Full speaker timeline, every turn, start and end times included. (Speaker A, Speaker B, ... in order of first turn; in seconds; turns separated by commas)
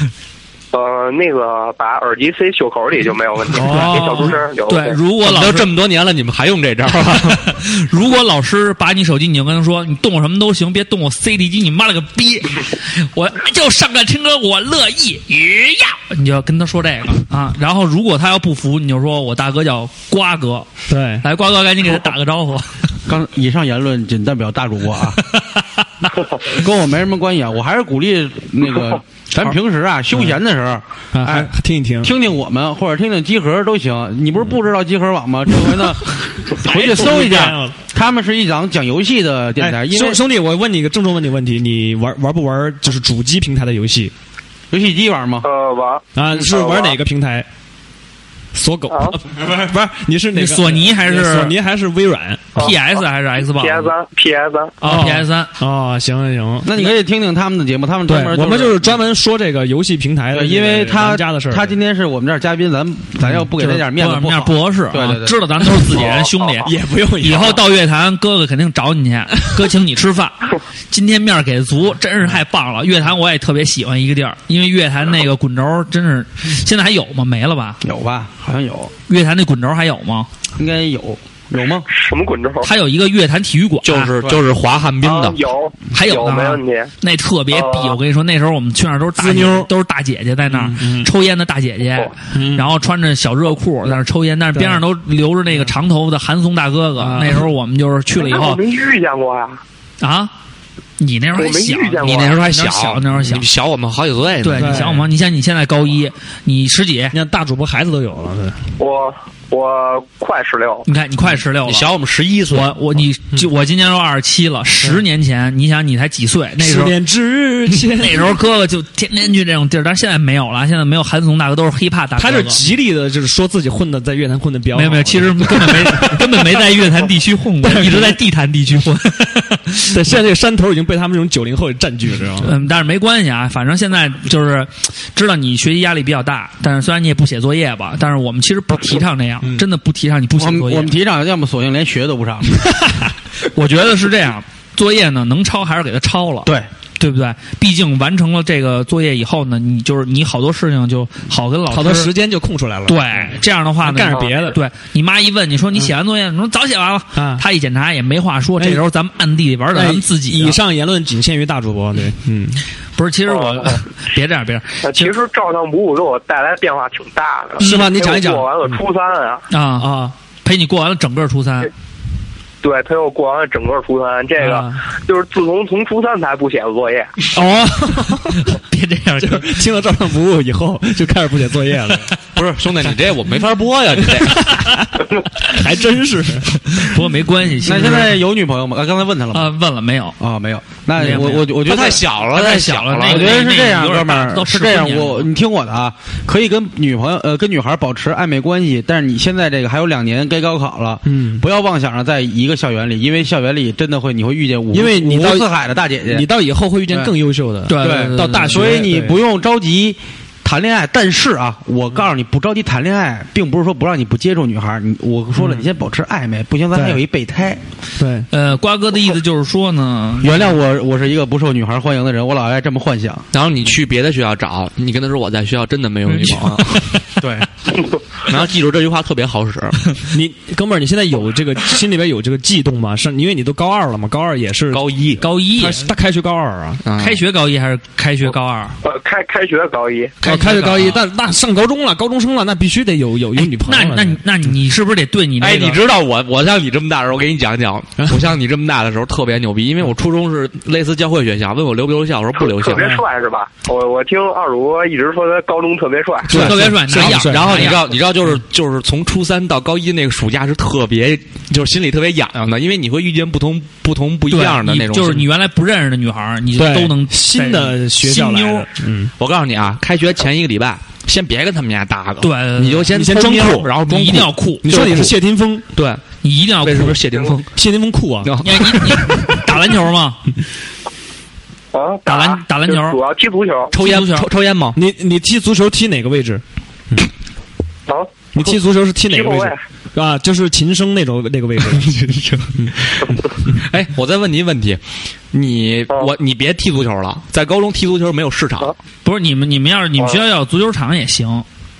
Speaker A: 0.7-5.0, Speaker B: 3.5-4.3, Speaker C: 3.6-5.7, Speaker D: 5.2-7.4, Speaker C: 7.3-20.7, Speaker B: 20.9-21.2, Speaker C: 21.2-22.8, Speaker E: 23.1-25.2, Speaker C: 25.4-26.1, Speaker E: 26.5-31.5, Speaker B: 30.1-30.4, Speaker B: 31.1-32.1, Speaker E: 32.0-40.2, Speaker B: 36.6-37.8, Speaker B: 39.6-44.1, Speaker E: 44.7-45.5, Speaker A: 45.4-47.0, Speaker B: 46.1-47.5, Speaker B: 48.5-52.6, Speaker A: 48.9-49.1, Speaker C: 50.3-51.5, Speaker C: 52.6-53.9, Speaker A: 52.6-54.8, Speaker C: 54.8-55.5, Speaker B: 54.8-56.7, Speaker E: 56.6-59.0, Speaker B: 58.1-61.8, Speaker E: 60.3-65.4, Speaker C: 63.6-66.7, Speaker A: 65.9-66.7, Speaker B: 66.7-67.7, Speaker C: 67.2-77.8, Speaker E: 77.8-78.9, Speaker C: 79.1-80.3, Speaker E: 80.6-81.9, Speaker A: 81.9-82.7, Speaker C: 82.6-84.1, Speaker D: 83.8-85.4, Speaker A: 85.0-86.9, Speaker C: 85.9-98.6, Speaker A: 87.5-88.0, Speaker B: 89.2-89.7, Speaker B: 90.5-91.1, Speaker B: 92.3-92.7, Speaker B: 94.5-94.8, Speaker B: 97.0-97.5, Speaker A: 98.2-99.6, Speaker C: 100.0-100.3, Speaker C: 101.0-103.5, Speaker A: 101.3-102.4, Speaker D: 102.0-104.9, Speaker C: 104.4-107.2, Speaker B: 104.5-105.1, Speaker B: 107.1-108.6, Speaker A: 108.8-110.8, Speaker C: 110.8-111.9, Speaker D: 111.7-112.8, Speaker C: 112.5-116.9, Speaker B: 116.6-118.3, Speaker C: 118.0-122.6, Speaker B: 122.2-126.7, Speaker C: 124.7-129.9, Speaker B: 127.6-128.2, Speaker B: 129.9-132.5, Speaker C: 132.4-140.9, Speaker E: 140.3-142.7, Speaker C: 143.4-152.1, Speaker B: 151.7-154.6, Speaker C: 152.9-160.6, Speaker A: 154.1-154.5, Speaker B: 157.2-157.4, Speaker B: 158.6-158.8, Speaker B: 159.7-162.6, Speaker C: 163.0-165.1, Speaker A: 163.3-163.8, Speaker A: 164.8-169.4, Speaker B: 167.6-168.8, Speaker C: 167.6-167.9, Speaker C: 169.5-171.7, Speaker B: 169.8-170.1, Speaker A: 172.6-177.1, Speaker B: 174.4-174.8, Speaker B: 177.3-178.5, Speaker C: 178.3-179.6, Speaker B: 179.2-182.1, Speaker D: 182.3-184.5, Speaker B: 184.0-186.8, Speaker C: 186.7-188.2, Speaker E: 187.6-189.5, Speaker C: 189.3-190.2, Speaker E: 190.2-192.0, Speaker C: 190.9-195.3, Speaker D: 191.6-193.6, Speaker E: 193.1-206.3, Speaker B: 201.1-201.4, Speaker B: 204.7-205.5, Speaker B: 206.0-209.2, Speaker C: 207.7-208.8, Speaker E: 207.8-217.6, Speaker B: 215.3-215.7, Speaker B: 216.7-217.0, Speaker B: 218.0-218.3, Speaker C: 218.3-220.5, Speaker E: 220.2-223.2, Speaker D: 223.3-226.8, Speaker C: 226.1-227.0, Speaker E: 227.2-227.5, Speaker D: 228.3-229.8, Speaker B: 230.1-236.8, Speaker D: 234.7-235.2, Speaker C: 235.2-235.9, Speaker D: 236.8-237.2, Speaker C: 237.0-238.7, Speaker A: 238.8-240.2, Speaker C: 240.2-241.0, Speaker B: 240.2-244.2, Speaker C: 243.4-245.8, Speaker D: 245.4-252.9, Speaker A: 252.4-256.4, Speaker B: 252.8-253.0, Speaker B: 256.3-257.8, Speaker D: 256.3-265.3, Speaker C: 256.3-257.9, Speaker C: 264.3-268.7, Speaker B: 266.6-269.1, Speaker D: 269.2-275.2, Speaker C: 272.2-272.9, Speaker B: 272.9-273.7, Speaker C: 273.8-274.7, Speaker B: 274.6-275.6, Speaker D: 275.7-276.0, Speaker C: 276.2-277.0, Speaker D: 276.6-277.5, Speaker B: 277.6-278.3, Speaker D: 278.2-279.3, Speaker C: 278.4-280.2, Speaker A: 281.7-283.7, Speaker C: 282.1-283.0, Speaker C: 283.7-284.3, Speaker D: 283.7-284.8, Speaker B: 284.7-287.1, Speaker A: 287.9-288.3, Speaker B: 288.3-292.7, Speaker A: 289.1-289.6, Speaker D: 291.8-294.8, Speaker D: 295.3-298.7, Speaker C: 299.1-301.4